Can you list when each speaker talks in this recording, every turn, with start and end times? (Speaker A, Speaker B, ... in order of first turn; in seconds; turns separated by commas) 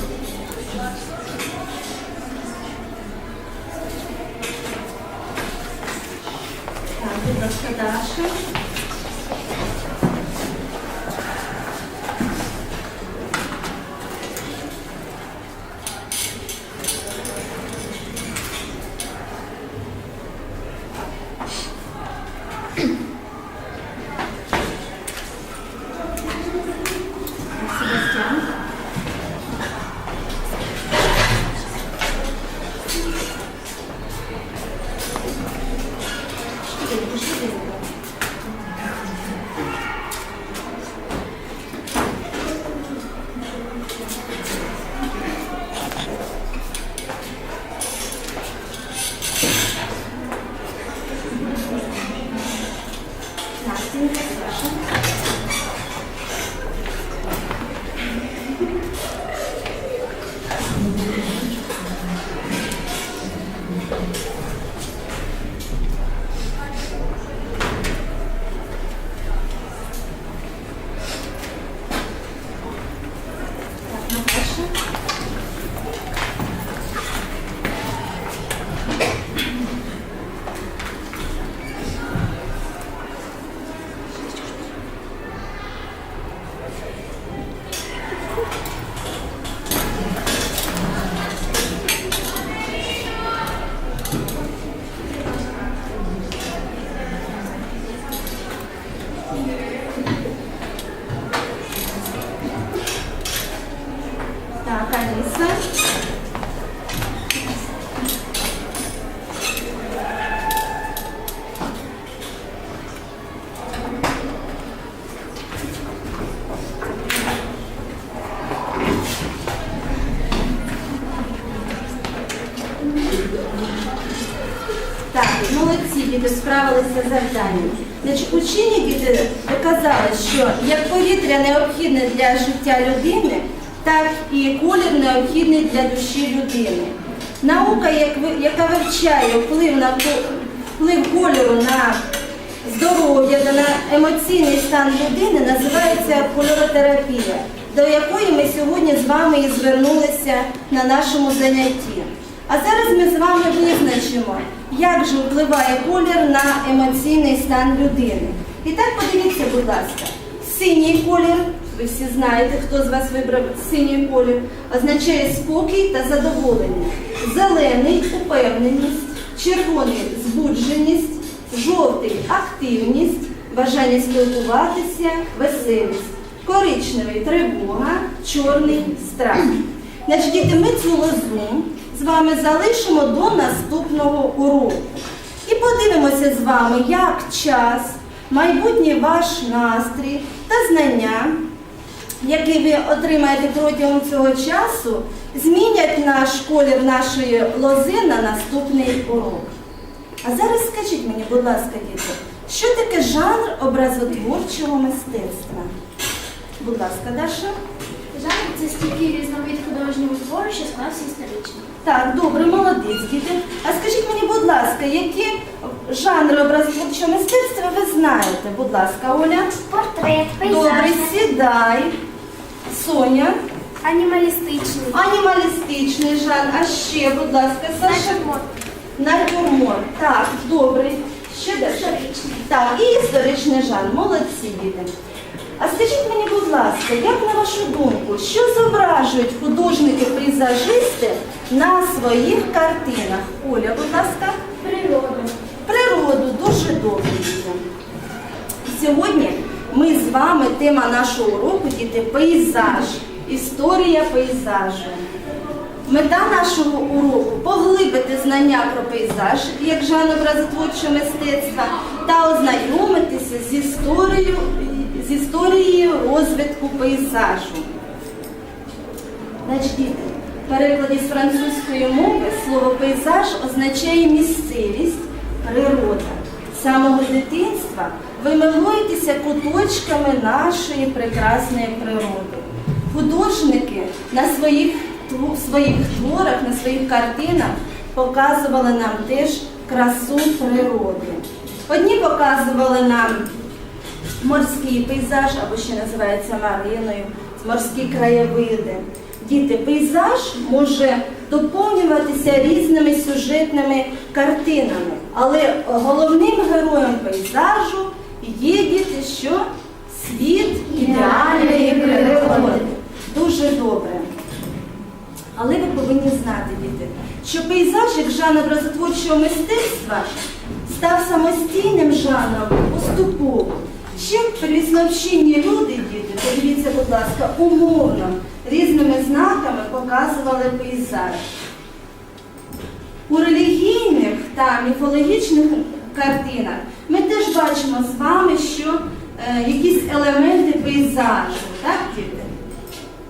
Speaker A: 7.0-8.4, Speaker A: 27.6-28.5, Speaker A: 36.6-37.9, Speaker A: 53.6-54.9, Speaker A: 73.8-74.7, Speaker A: 104.6-105.6, Speaker A: 125.1-142.0, Speaker A: 142.6-191.4, Speaker A: 192.2-199.5, Speaker A: 200.2-205.7, Speaker A: 206.6-207.5, Speaker B: 208.1-211.7, Speaker A: 211.8-219.6, Speaker B: 219.7-221.2, Speaker A: 220.4-221.9, Speaker A: 222.7-223.4, Speaker B: 223.8-225.0, Speaker A: 224.9-228.3, Speaker B: 227.8-228.5, Speaker A: 229.0-234.9, Speaker B: 231.7-232.5, Speaker A: 235.6-244.4, Speaker B: 244.6-245.3, Speaker A: 245.7-247.6, Speaker A: 248.6-255.1, Speaker A: 255.8-267.7, Speaker A: 269.4-293.3, Speaker A: 294.2-314.1, Speaker B: 310.7-312.7, Speaker A: 315.4-320.1, Speaker A: 320.6-331.2, Speaker A: 333.1-342.3